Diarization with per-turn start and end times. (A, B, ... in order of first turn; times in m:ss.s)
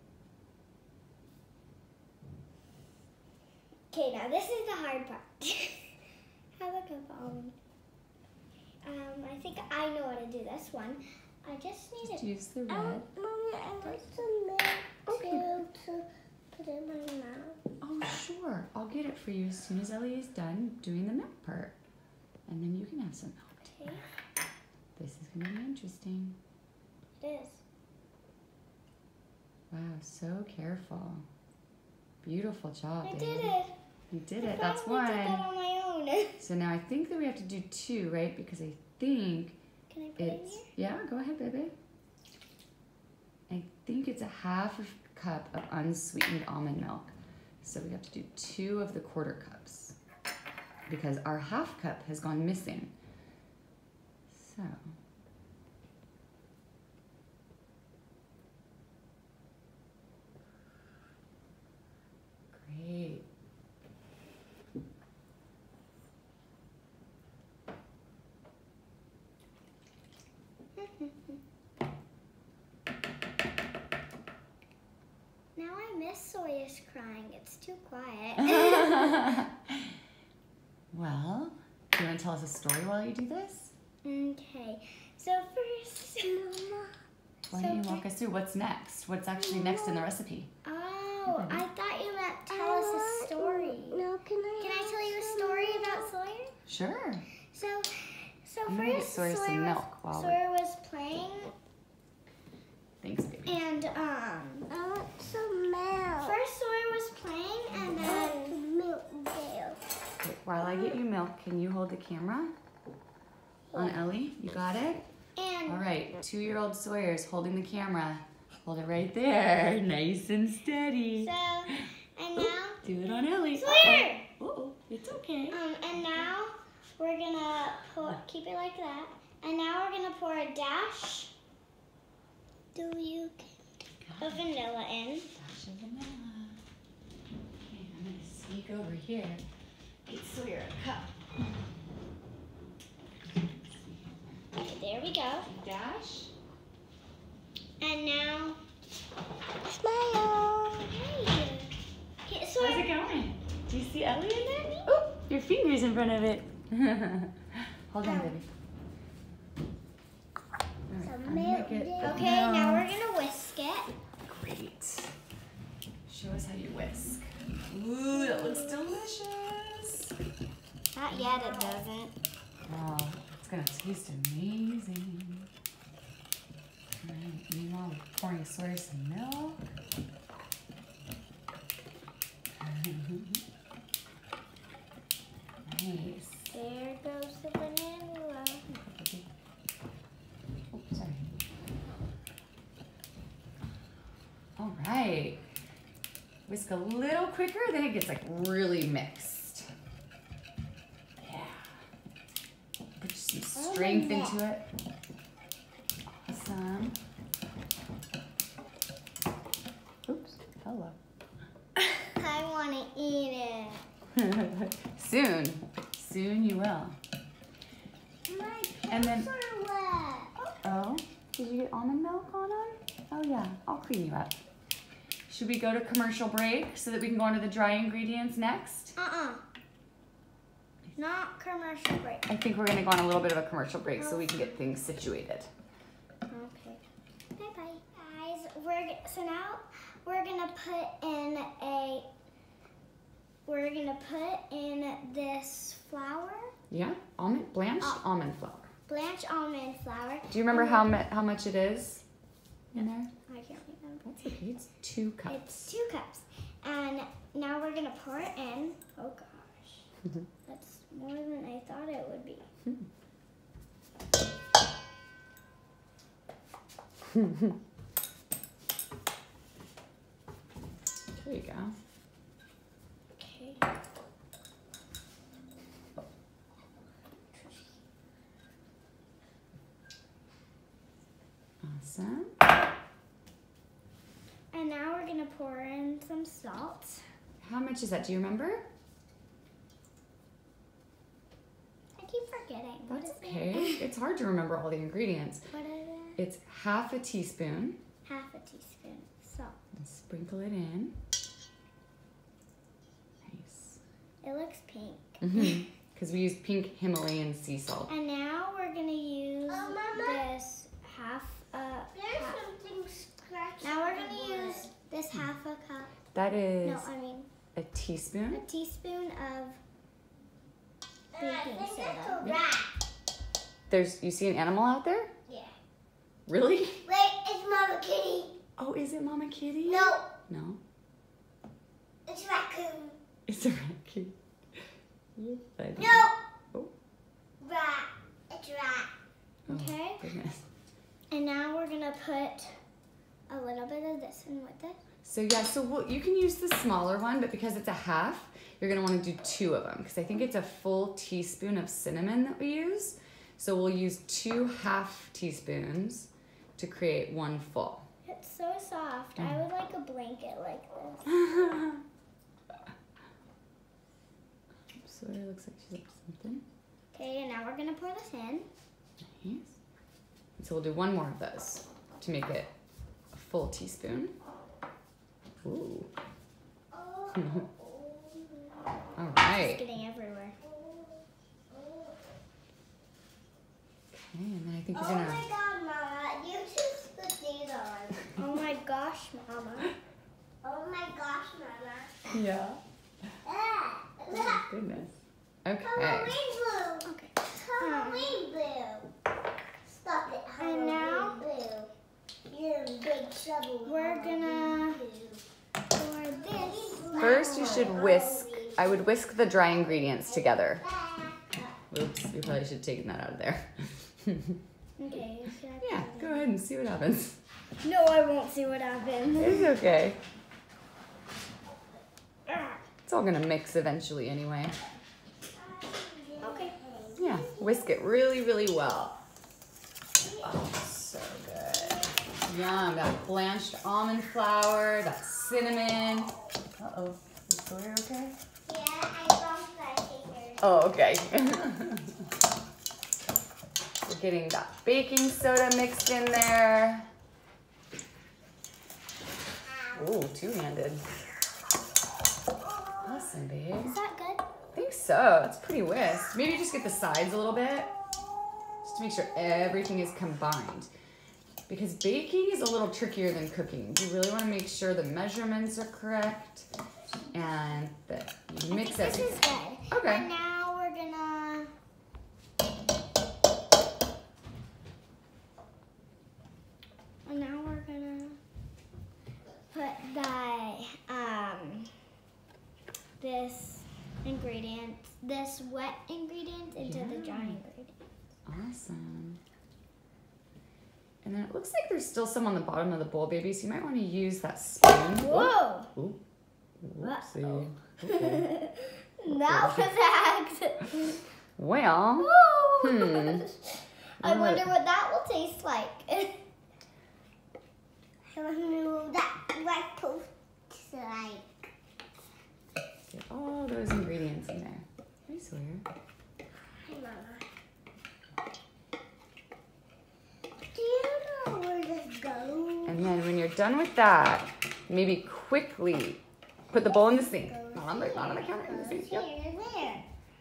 0:03.9-0:06.0 A
0:06.6-0:07.5 A
0:08.8-0:12.3 A
0:12.0-0:13.1 B
0:12.7-0:17.6 C
0:13.8-0:14.1 A
0:15.1-0:15.5 B
0:17.8-0:21.8 B
0:22.5-0:24.0 B
0:23.6-0:24.1 A
0:25.0-0:26.4 B
0:27.2-0:27.6 A
0:29.7-0:31.2 B
0:32.2-0:33.5 B
0:33.0-0:33.7 A
0:34.1-0:35.4 B
0:34.4-0:36.4 A
0:36.4-0:39.6 B
0:39.9-0:40.7 A
0:40.2-0:41.7 B
0:43.5-0:50.0 B
0:50.9-0:52.9 B
0:54.3-0:54.8 B
1:02.5-1:03.3 B
1:10.8-1:11.4 A
1:15.6-1:19.3 A
1:18.4-1:20.0 B
1:20.9-1:23.7 B
1:24.0-1:26.5 A
1:26.3-1:27.0 C
1:27.5-1:30.5 B
1:27.5-1:28.0 A
1:29.4-1:30.1 C
1:30.6-1:34.0 A
1:31.3-1:31.6 B
1:32.5-1:36.1 C
1:34.6-1:36.5 A
1:36.7-1:37.3 B
1:37.5-1:41.5 A
1:38.7-1:40.4 B
1:43.0-1:43.6 B
1:43.5-1:44.7 A
1:44.7-1:46.4 C
1:46.2-1:48.6 A
1:47.9-1:49.8 C
1:50.2-1:52.5 B
1:53.7-1:54.0 A
1:53.7-1:55.0 B
1:55.4-1:55.8 A
1:55.7-2:01.3 B
2:01.2-2:02.8 A
2:02.4-2:05.6 B
2:03.6-2:04.3 A
2:05.5-2:11.3 A
2:12.8-2:13.5 A
2:14.0-2:14.4 B
2:14.2-2:15.3 A
2:15.3-2:16.6 B
2:17.6-2:19.4 B
2:20.1-2:21.6 B
2:23.2-2:24.5 B
2:24.6-2:25.5 A
2:25.5-2:26.3 B
2:27.8-2:28.6 A
2:29.7-2:30.9 C
2:30.8-2:31.7 A
2:32.3-2:33.0 A
2:32.6-2:38.5 B
2:34.5-2:34.9 A
2:38.0-2:38.4 A
2:40.9-2:42.9 B
2:41.0-2:42.2 C
2:42.0-2:43.9 A
2:44.2-2:45.1 B
2:46.1-2:50.1 B
2:48.2-2:48.8 A
2:50.9-2:52.1 A
2:51.2-2:51.8 C
2:52.7-2:55.5 B
2:57.0-2:59.6 B
3:02.6-3:03.4 B
3:05.7-3:06.5 B
3:06.6-3:08.0 C
3:06.7-3:08.6 A
3:08.7-3:09.3 B
3:10.7-3:11.2 B
3:14.6-3:15.4 B
3:16.5-3:19.7 B
3:21.2-3:21.8 B
3:23.0-3:24.7 B
3:23.7-3:24.0 A
3:23.8-3:24.3 C
3:26.3-3:27.0 B
3:30.1-3:31.0 B
3:32.1-3:33.8 A
3:34.2-3:37.0 B
3:38.3-3:40.4 C
3:38.9-3:39.3 B
3:40.5-3:44.4 B
3:45.3-3:49.0 B
3:49.0-3:49.4 A
3:51.0-3:52.3 A
3:52.3-3:55.5 B
3:54.0-3:54.6 A
3:56.3-3:56.8 A
3:57.4-4:02.1 A
4:03.5-4:06.5 A
4:06.7-4:08.7 B
4:08.9-4:11.0 A
4:10.3-4:12.0 B
4:12.7-4:13.1 B
4:12.8-4:14.1 A
4:14.0-4:15.7 B
4:15.3-4:19.9 A
4:20.5-4:22.5 A
4:27.1-4:27.6 B
4:31.2-4:31.8 B
4:33.2-4:33.6 A
4:41.6-4:42.3 B
4:44.5-4:47.0 A
4:47.4-4:48.7 B
4:52.0-4:53.9 A
4:52.9-4:55.5 B
4:55.5-4:56.2 A
4:56.2-4:57.8 B
4:58.1-4:59.6 A
4:59.8-5:01.0 B
5:03.3-5:03.8 B
5:04.2-5:05.5 A
5:05.2-5:07.9 B
5:07.9-5:12.4 A
5:09.5-5:10.3 C
5:11.9-5:14.7 C
5:13.6-5:16.0 A
5:16.1-5:16.9 B
5:16.6-5:17.3 A
5:17.6-5:18.4 B
5:18.3-5:19.6 A
5:21.1-5:22.7 C
5:21.2-5:22.2 A
5:23.7-5:25.1 B
5:25.3-5:25.5 C
5:26.3-5:26.8 B
5:26.8-5:28.4 C
5:28.6-5:30.6 B
5:29.6-5:30.1 C
5:32.1-5:33.0 C
5:33.3-5:34.2 B
5:35.2-5:36.7 B
5:35.8-5:36.2 C
5:37.4-5:38.9 C
5:39.5-5:40.0 A
5:39.5-5:40.5 B
5:41.1-5:42.6 A
5:43.3-5:44.8 A
5:45.0-5:57.8 B
5:58.0-6:01.6 A
5:59.2-5:59.4 B
6:01.1-6:01.8 B
6:04.7-6:06.4 B
6:06.9-6:08.5 A
6:09.0-6:09.6 B
6:10.4-6:12.5 B
6:13.1-6:14.2 B
6:15.4-6:15.9 B
6:16.7-6:18.7 C
6:17.2-6:17.5 B
6:19.0-6:19.6 B
6:19.3-6:20.4 A
6:20.4-6:22.0 C
6:23.9-6:25.2 B
6:24.7-6:28.1 C
6:28.2-6:29.7 A
6:30.4-6:32.1 C
6:32.1-6:32.6 B
6:33.2-6:34.4 C
6:34.1-6:34.9 B
6:35.4-6:36.2 B
6:35.6-6:38.9 C
6:36.8-6:38.2 A
6:39.6-6:41.7 C
6:40.4-6:41.2 A
6:42.3-6:45.2 C
6:43.6-6:44.8 A
6:45.7-6:47.8 A
6:46.1-6:48.9 C
6:47.0-6:50.7 B
6:49.7-6:51.4 C
6:51.7-6:54.4 B
6:54.8-6:56.3 A
6:55.6-6:57.2 B
6:57.6-6:59.6 A
6:59.2-7:00.0 B
7:02.3-7:02.6 A
7:02.9-7:04.6 B
7:05.3-7:07.7 C
7:06.2-7:06.6 A
7:07.0-7:09.0 B
7:10.2-7:18.2 B
7:18.5-7:20.5 C
7:20.4-7:22.1 B
7:23.8-7:26.9 B
7:29.5-7:29.8 C
7:29.7-7:30.8 B
7:32.6-7:32.8 C
7:32.8-7:33.8 B
7:33.6-7:34.2 A
7:34.6-7:37.7 B
7:38.6-7:40.7 B
7:41.5-7:46.5 B
7:47.1-7:50.1 B
7:48.5-7:51.5 A
7:57.1-7:58.2 A
7:59.5-8:01.8 A
8:03.0-8:07.8 A
8:06.6-8:07.4 B
8:08.3-8:09.2 B
8:11.0-8:16.0 B
8:15.0-8:15.7 A
8:16.6-8:18.3 B
8:16.8-8:21.0 A
8:19.1-8:19.7 B
8:21.4-8:23.2 B
8:22.0-8:26.2 A
8:24.0-8:24.5 B
8:28.1-8:31.3 C
8:32.9-8:35.6 B
8:36.6-8:37.2 C
8:40.5-8:42.8 C
8:42.6-8:49.1 B
8:46.6-8:49.9 C